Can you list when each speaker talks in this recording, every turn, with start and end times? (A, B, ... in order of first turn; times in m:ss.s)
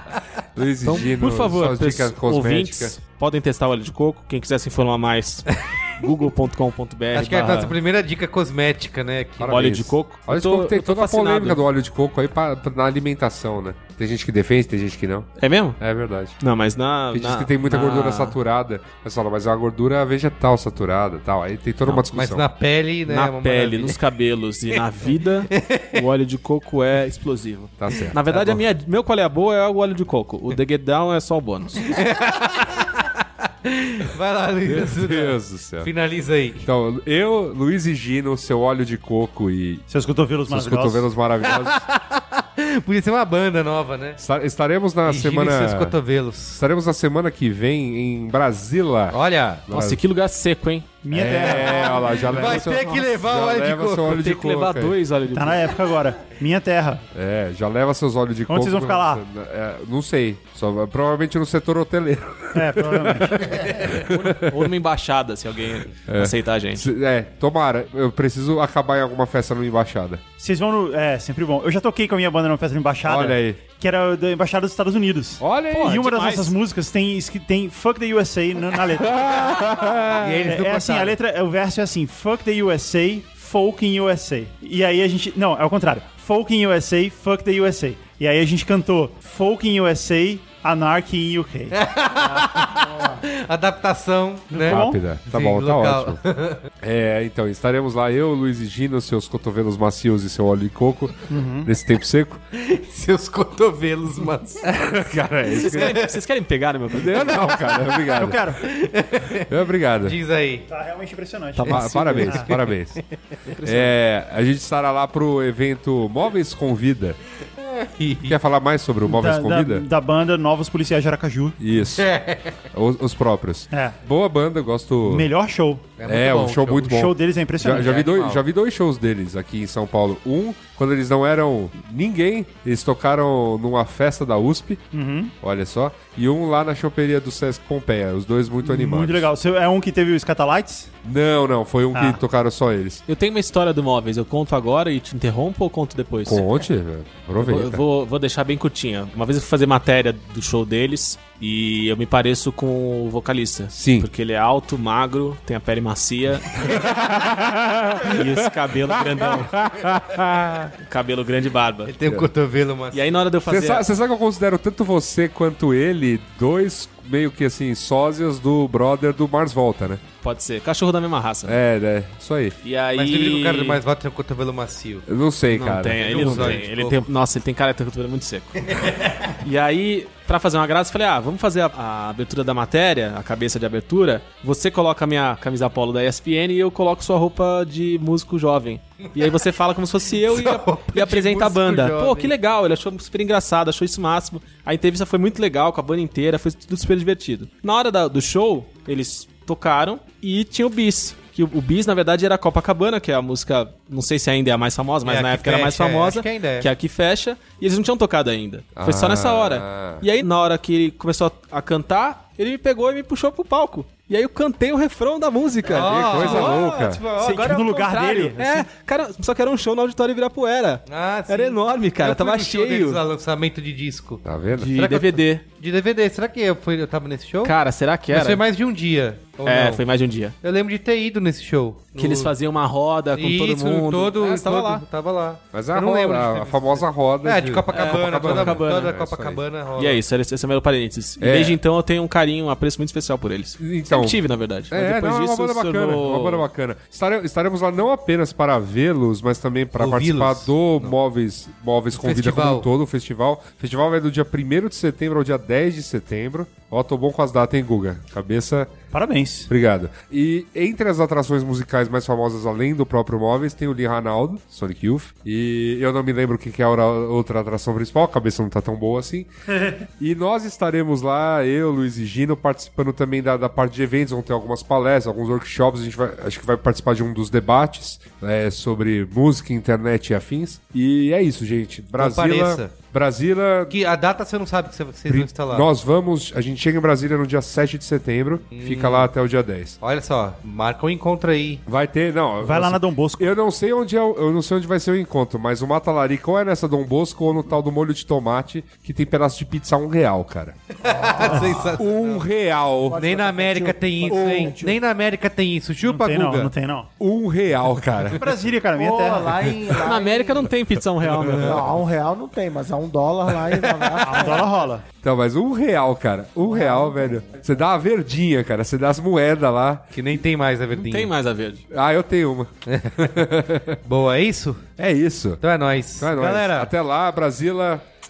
0:00.5-0:03.0 A
0:00.8-0:07.8 B
0:07.1-0:09.6 C
0:09.4-0:16.4 A
0:09.4-0:11.6 B
0:15.4-0:15.8 B
0:16.4-0:18.4 B
0:17.1-0:22.4 A
0:22.1-0:24.0 C
0:23.1-0:32.0 B
0:25.5-0:26.0 C
0:27.8-0:28.6 A
0:31.8-0:36.6 C
0:34.6-0:35.9 A
0:36.6-0:39.8 A
0:39.9-0:41.1 D
0:40.5-0:41.8 A
0:41.4-0:44.2 C
0:44.2-0:46.0 A
0:45.0-0:46.6 C
0:46.6-0:50.0 A
0:49.1-0:49.6 C
0:49.7-0:51.0 B
0:51.0-0:52.7 D
0:51.1-0:55.0 A
0:51.5-0:54.3 C
0:54.1-0:55.7 B
0:55.3-0:57.0 D
0:57.1-1:04.6 A
0:58.5-0:59.2 D
1:02.5-1:03.4 D
1:03.6-1:03.9 C
1:03.8-1:06.9 B
1:06.1-1:10.2 A
1:10.4-1:19.6 D
1:13.0-1:13.6 A
1:15.4-1:16.0 A
1:15.7-1:16.5 B
1:18.9-1:20.4 A
1:20.1-1:21.2 C
1:20.4-1:31.7 D
1:31.7-1:36.6 C
1:32.7-1:33.2 E
1:34.5-1:35.1 D
1:34.7-1:36.2 A
1:36.8-1:42.4 A
1:41.3-1:41.7 D
1:42.5-1:44.6 C
1:44.6-1:46.0 A
1:45.5-1:47.5 B
1:46.9-1:48.6 A
1:48.0-1:48.6 D
1:48.6-1:50.6 C
1:49.4-1:50.2 A
1:50.7-1:52.5 D
1:51.5-1:52.5 B
1:51.7-1:53.0 A
1:52.5-1:53.0 C
1:53.5-1:54.0 B
1:53.6-1:57.2 A
1:57.6-1:58.4 C
1:58.2-1:59.8 A
1:59.0-2:01.6 D
2:01.6-2:02.1 A
2:02.0-2:02.6 C
2:02.7-2:05.3 A
2:03.7-2:04.0 D
2:05.0-2:05.9 D
2:06.0-2:06.9 C
2:06.0-2:14.8 A
2:06.8-2:08.2 D
2:07.6-2:08.4 C
2:14.9-2:15.3 D
2:15.4-2:19.3 A
2:18.6-2:20.9 D
2:21.0-2:23.0 A
2:21.9-2:22.2 D
2:23.0-2:26.5 B
2:26.2-2:27.8 A
2:27.4-2:36.9 B
2:33.7-2:34.1 A
2:36.6-2:40.6 A
2:38.0-2:39.5 B
2:40.8-2:41.9 B
2:41.9-2:43.1 C
2:42.9-2:43.9 B
2:43.4-2:50.0 A
2:50.2-2:51.6 B
2:51.4-2:52.6 A
2:52.6-2:53.8 B
2:53.0-2:55.0 C
2:55.1-2:56.6 A
2:55.5-2:58.6 B
2:56.0-2:57.0 C
2:58.7-2:59.1 C
2:59.4-3:43.0 B
3:10.2-3:12.3 C
3:25.0-3:26.7 C
3:28.8-3:30.0 A
3:35.7-3:37.0 A
3:35.7-3:37.4 C
3:37.2-3:38.7 D
3:40.9-3:47.5 C
3:44.2-3:44.7 A
3:44.5-3:45.4 B
3:47.4-3:48.4 B
3:48.1-3:49.8 C
3:49.4-3:50.3 B
3:50.4-3:52.3 C
3:51.9-3:54.8 B
3:53.1-4:00.0 C
3:55.5-3:59.4 A
3:57.7-3:58.9 B
3:59.8-4:06.5 B
4:01.2-4:01.6 A
4:03.6-4:18.7 A
4:09.7-4:11.0 C
4:11.9-4:12.7 C
4:18.9-4:19.5 D
4:19.5-4:29.3 A
4:29.9-4:43.7 A
4:42.0-4:42.7 C
4:43.7-4:45.7 C
4:45.1-4:49.8 A
4:48.5-4:49.1 C
4:49.8-4:51.6 C
4:51.7-5:00.6 A
4:52.4-4:53.3 D
5:00.8-5:02.2 C
5:01.2-5:03.0 A
5:01.2-5:01.8 E
5:02.8-5:04.8 E
5:02.9-5:06.5 C
5:04.1-5:04.5 A
5:05.8-5:06.9 D
5:07.0-5:08.3 A
5:08.1-5:09.4 D
5:08.7-5:10.5 E
5:09.8-5:11.7 B
5:11.1-5:11.6 C
5:11.4-5:14.5 E
5:13.4-5:14.3 C
5:14.0-5:14.8 D
5:15.0-5:19.8 A
5:16.4-5:17.4 E
5:19.9-5:21.1 C
5:20.7-5:21.6 B
5:21.7-5:23.8 A
5:22.7-5:23.1 C
5:23.8-5:24.7 C
5:24.8-5:25.4 A
5:25.4-5:26.7 C
5:26.0-5:27.9 A